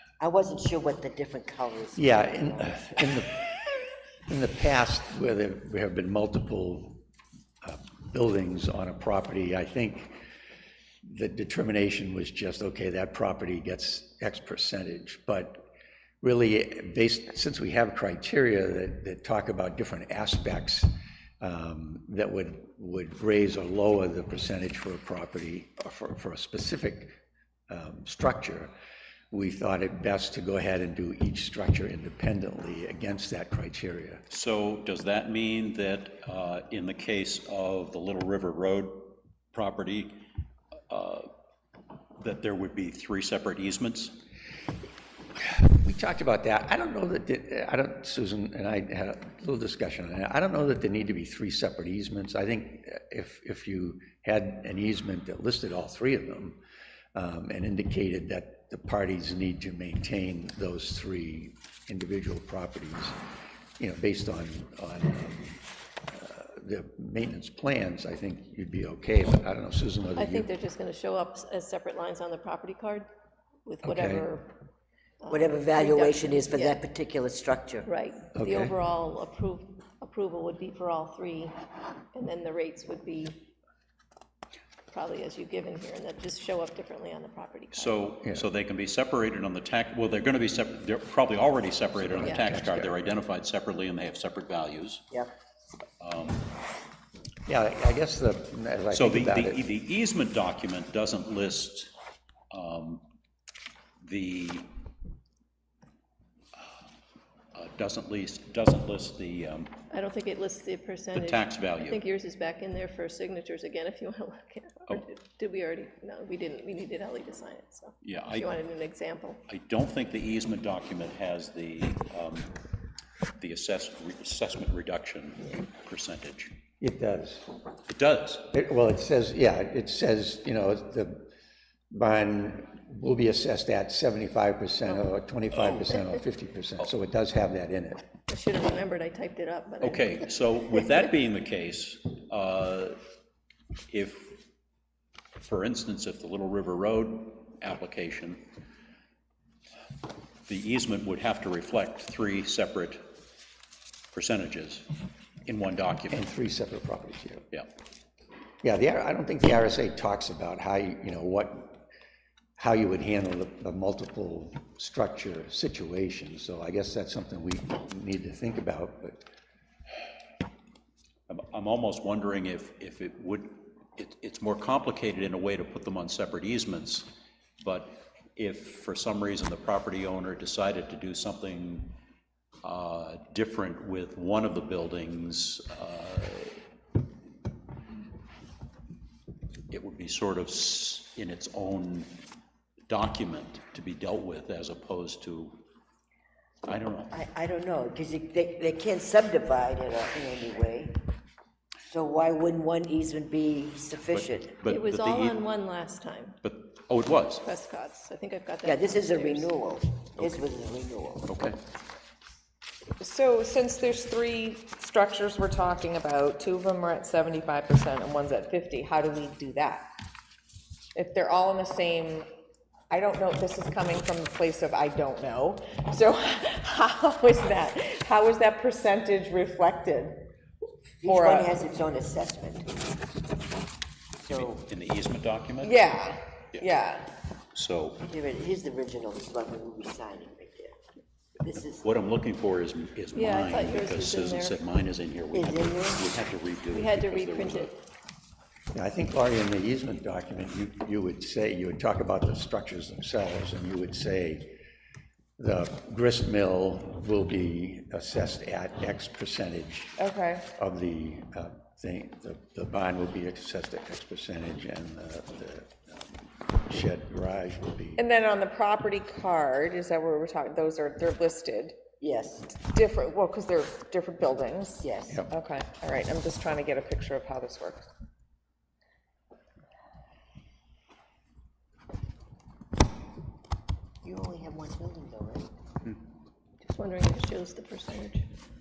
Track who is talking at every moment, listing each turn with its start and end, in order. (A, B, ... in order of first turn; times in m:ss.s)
0:00.2-0:02.8 A
0:02.0-0:07.0 B
0:07.6-0:10.2 B
0:11.0-0:15.6 B
0:16.2-0:27.2 B
0:27.7-0:28.7 B
0:29.3-0:34.2 B
0:34.3-0:40.3 C
0:40.9-0:41.3 C
0:42.2-0:44.2 C
0:45.4-0:56.6 B
0:57.1-1:03.2 B
1:03.8-1:10.5 B
1:10.2-1:13.1 D
1:13.6-1:14.6 D
1:13.8-1:14.3 B
1:15.2-1:16.8 D
1:15.3-1:17.9 A
1:17.8-1:21.6 D
1:18.3-1:18.8 B
1:22.1-1:23.4 D
1:24.9-1:28.0 D
1:27.7-1:35.1 C
1:32.1-1:32.9 B
1:32.2-1:32.5 D
1:36.0-1:36.4 C
1:37.4-1:39.6 B
1:38.9-1:41.9 C
1:42.5-1:43.0 C
1:44.0-1:44.7 C
1:47.5-1:49.8 C
1:49.9-1:59.4 D
1:51.1-1:52.0 C
1:58.0-1:58.6 C
1:59.5-2:02.5 C
2:03.4-2:06.5 C
2:06.8-2:07.5 B
2:07.9-2:08.5 C
2:08.5-2:11.3 B
2:11.9-2:18.0 B
2:18.3-2:20.3 D
2:19.8-2:23.0 C
2:23.9-2:24.4 C
2:25.4-2:28.4 C
2:30.5-2:33.0 C
2:34.1-2:34.9 C
2:35.4-2:36.3 C
2:36.1-2:37.5 B
2:38.6-2:41.9 B
2:42.6-2:49.2 B
2:51.3-3:01.9 C
3:02.6-3:06.6 C
3:09.7-3:12.1 C
3:12.9-3:15.6 C
3:16.6-3:17.1 C
3:17.1-3:21.0 A
3:21.9-3:24.5 A
3:24.1-3:25.4 C
3:24.6-3:26.4 D
3:26.4-3:27.4 C
3:27.4-3:29.5 D
3:28.6-3:31.4 A
3:30.2-3:30.4 C
3:31.3-3:31.6 C
3:33.0-3:39.8 E
3:40.9-3:42.2 E
3:42.9-3:50.2 E
3:51.0-3:52.7 A
3:51.0-3:51.6 E
3:54.2-3:55.8 C
3:54.2-3:54.6 A
3:55.6-3:57.1 E
3:57.5-3:58.0 C
3:58.0-4:00.8 A
4:01.4-4:01.8 A
4:01.8-4:07.8 C
4:03.1-4:04.6 D
4:05.3-4:06.1 A
4:06.7-4:07.8 D
4:08.7-4:14.6 B
4:15.4-4:20.0 B
4:20.0-4:20.4 E
4:20.5-4:28.0 B
4:28.0-4:31.8 E
4:32.0-4:32.6 A
4:32.5-4:37.9 E
4:34.8-4:35.2 A
4:44.0-4:45.5 A
4:46.6-4:48.3 D